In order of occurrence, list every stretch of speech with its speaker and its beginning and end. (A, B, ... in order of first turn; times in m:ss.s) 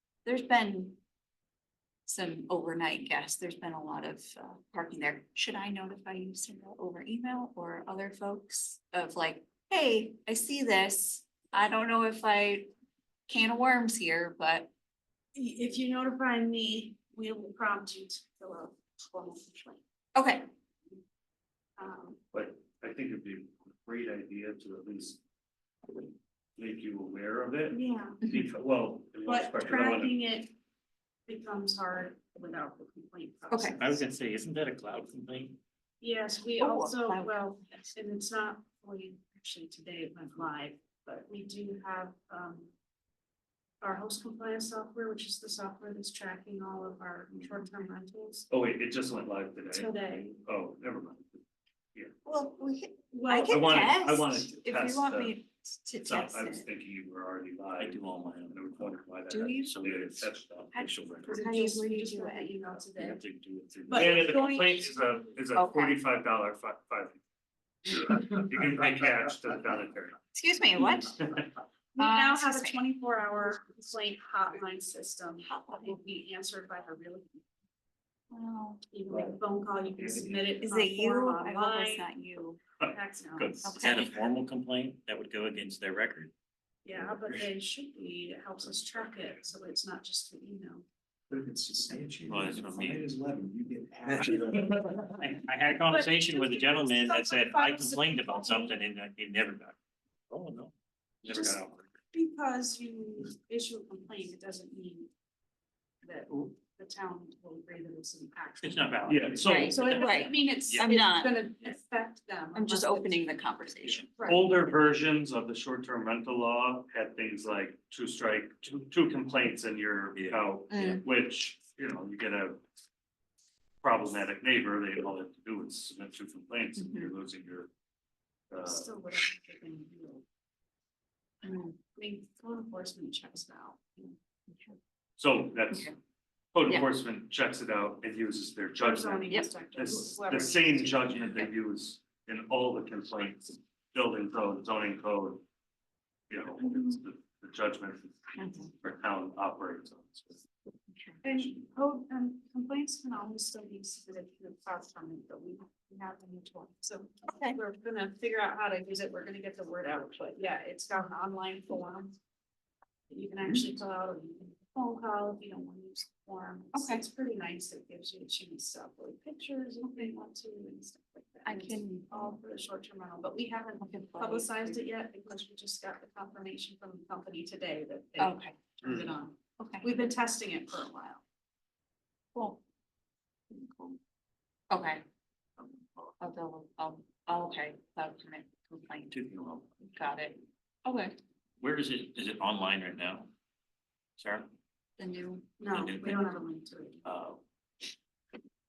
0:00.2-0:01.0 A
0:02.0-0:12.7 A
0:13.3-0:14.7 A
0:15.3-0:19.8 B
0:20.1-0:20.5 A
0:21.8-0:22.2 B
0:22.3-0:25.2 C
0:26.6-0:30.2 C
0:27.7-0:28.2 B
0:28.2-0:28.5 A
0:29.2-0:30.5 B
0:31.3-0:34.0 B
0:33.5-0:33.8 A
0:33.8-0:35.6 D
0:36.0-0:42.7 B
0:36.6-0:38.0 A
0:43.8-0:48.5 B
0:48.5-0:51.4 C
0:49.7-0:50.4 B
0:52.2-0:56.7 A
0:53.1-0:53.9 B
0:53.4-0:55.4 C
0:56.0-1:01.4 C
0:57.8-0:59.0 D
0:59.3-0:59.8 A
0:59.6-1:00.3 D
1:00.7-1:02.8 A
1:01.3-1:03.2 B
1:03.0-1:07.2 C
1:03.9-1:04.9 B
1:05.5-1:06.0 A
1:07.9-1:10.2 C
1:10.3-1:11.2 A
1:10.8-1:11.4 C
1:11.9-1:17.4 B
1:12.0-1:12.9 A
1:15.4-1:16.0 A
1:18.3-1:18.8 A
1:18.9-1:22.0 B
1:20.6-1:22.6 A
1:22.8-1:23.7 C
1:22.8-1:23.6 B
1:23.6-1:24.1 A
1:23.6-1:26.3 D
1:26.8-1:30.8 B
1:31.3-1:35.1 E
1:32.3-1:33.1 C
1:34.1-1:39.8 D
1:35.9-1:38.8 B
1:40.3-1:40.7 D
1:41.2-1:41.9 D
1:41.3-1:41.6 B
1:42.1-1:45.1 B
1:46.0-1:53.2 B
1:48.6-1:50.9 D
1:49.0-1:49.8 C
1:49.4-1:51.4 A
1:52.6-1:54.1 A
1:53.9-2:02.6 C
1:54.2-1:54.4 B
2:00.1-2:00.5 D
2:00.7-2:01.0 A
2:03.8-2:07.7 C
2:06.8-2:07.1 A
2:08.5-2:08.9 C
2:08.6-2:10.2 B
2:11.4-2:11.8 A
2:12.0-2:14.2 B
2:14.5-2:14.8 A
2:15.2-2:15.9 C
2:16.5-2:25.4 C
2:18.8-2:21.3 B
2:26.3-2:28.2 C
2:28.4-2:28.7 A
2:28.8-2:30.4 C
2:30.9-2:31.2 A
2:31.2-2:42.2 B
2:37.3-2:37.6 A
2:43.1-3:01.2 B
2:46.7-2:47.0 A
2:51.4-2:52.4 A
2:53.8-2:54.8 A
2:58.2-2:58.6 A
2:59.6-2:59.9 A
3:02.4-3:02.6 A
3:03.5-3:04.0 A
3:04.7-3:05.0 A
3:06.2-3:09.2 A
3:09.1-3:09.8 D
3:09.9-3:11.2 A
3:11.6-3:13.3 D
3:14.2-3:14.5 D
3:15.0-3:15.5 A
3:15.6-3:17.0 B
3:15.7-3:16.3 D
3:17.0-3:17.4 D